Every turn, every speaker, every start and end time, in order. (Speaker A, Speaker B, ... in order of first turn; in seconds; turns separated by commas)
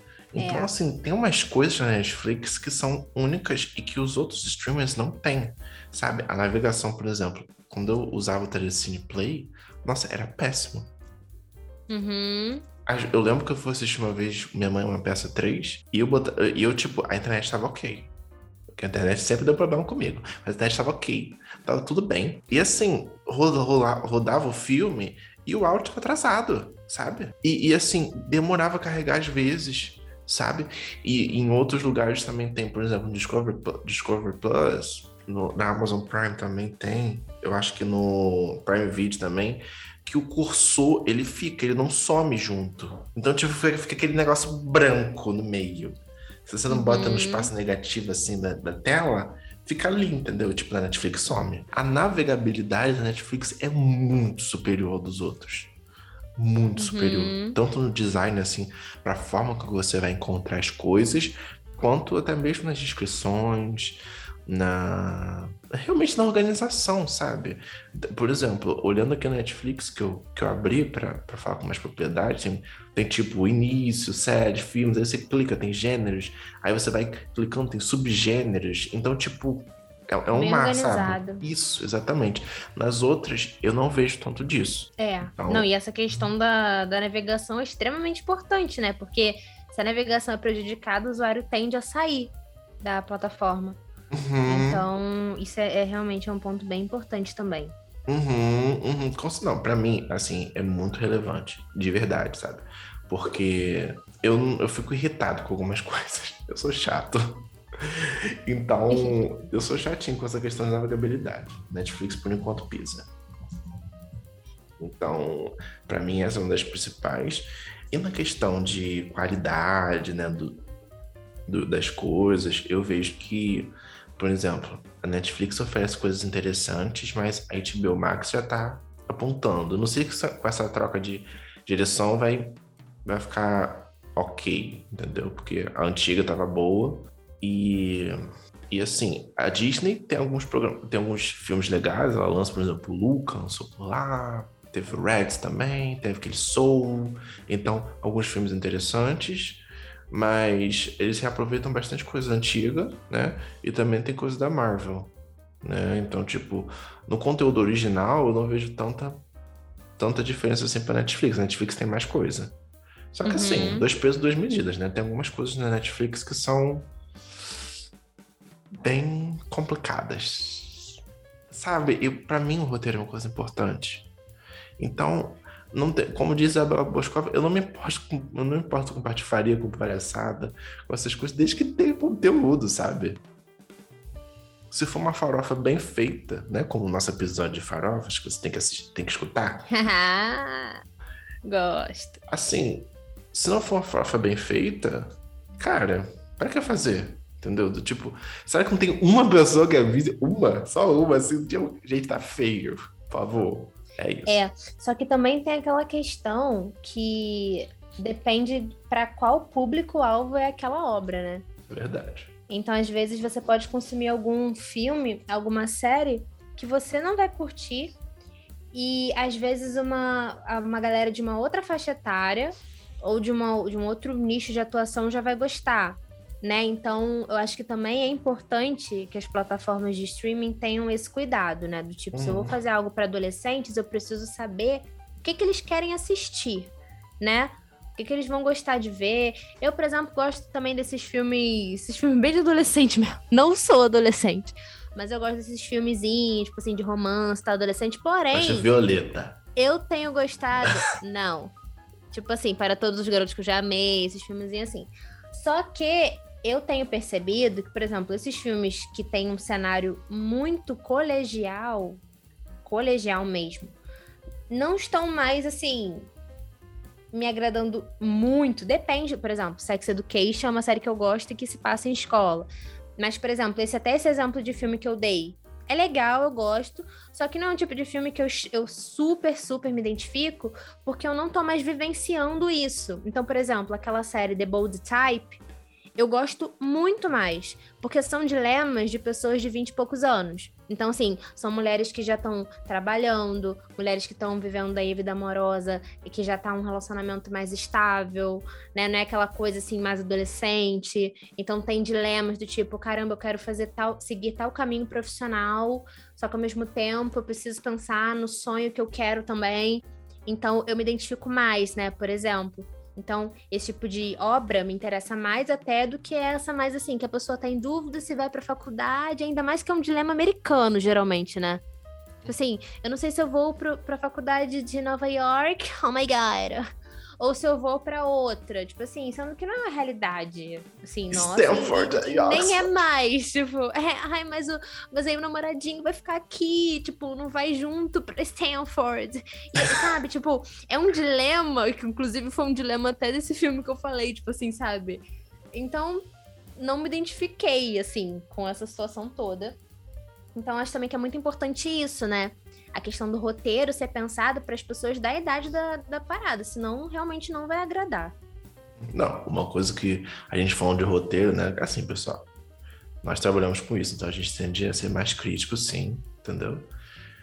Speaker A: 0.3-10.9, Speaker B: 0.4-0.7, Speaker B: 11.9-12.6, Speaker A: 12.8-18.1, Speaker A: 18.7-55.7, Speaker B: 46.7-47.5, Speaker A: 56.4-86.3, Speaker B: 56.8-57.6, Speaker B: 80.3-81.4, Speaker B: 85.0-93.8, Speaker A: 94.1-94.8, Speaker B: 94.5-97.7, Speaker A: 98.1-113.1, Speaker B: 108.9-109.2, Speaker A: 114.8-120.6, Speaker A: 121.5-159.2, Speaker A: 160.0-162.5, Speaker A: 163.1-166.9, Speaker B: 163.2-163.8, Speaker A: 168.8-171.0, Speaker A: 171.5-174.1, Speaker A: 174.8-183.2, Speaker A: 184.7-189.7, Speaker B: 189.7-190.8, Speaker B: 191.4-192.2, Speaker A: 192.3-204.4, Speaker B: 204.2-211.4, Speaker A: 211.7-212.3, Speaker B: 212.5-217.9, Speaker B: 218.7-248.7, Speaker A: 232.1-232.6, Speaker A: 248.3-249.4, Speaker B: 249.6-251.5, Speaker B: 252.1-262.0, Speaker B: 262.6-263.8, Speaker B: 264.5-266.1, Speaker B: 267.1-285.4, Speaker B: 286.0-321.6, Speaker B: 322.2-326.6, Speaker B: 327.2-346.0, Speaker A: 331.1-332.7, Speaker B: 346.6-349.6, Speaker B: 350.3-358.1, Speaker A: 358.8-362.3, Speaker A: 363.0-366.7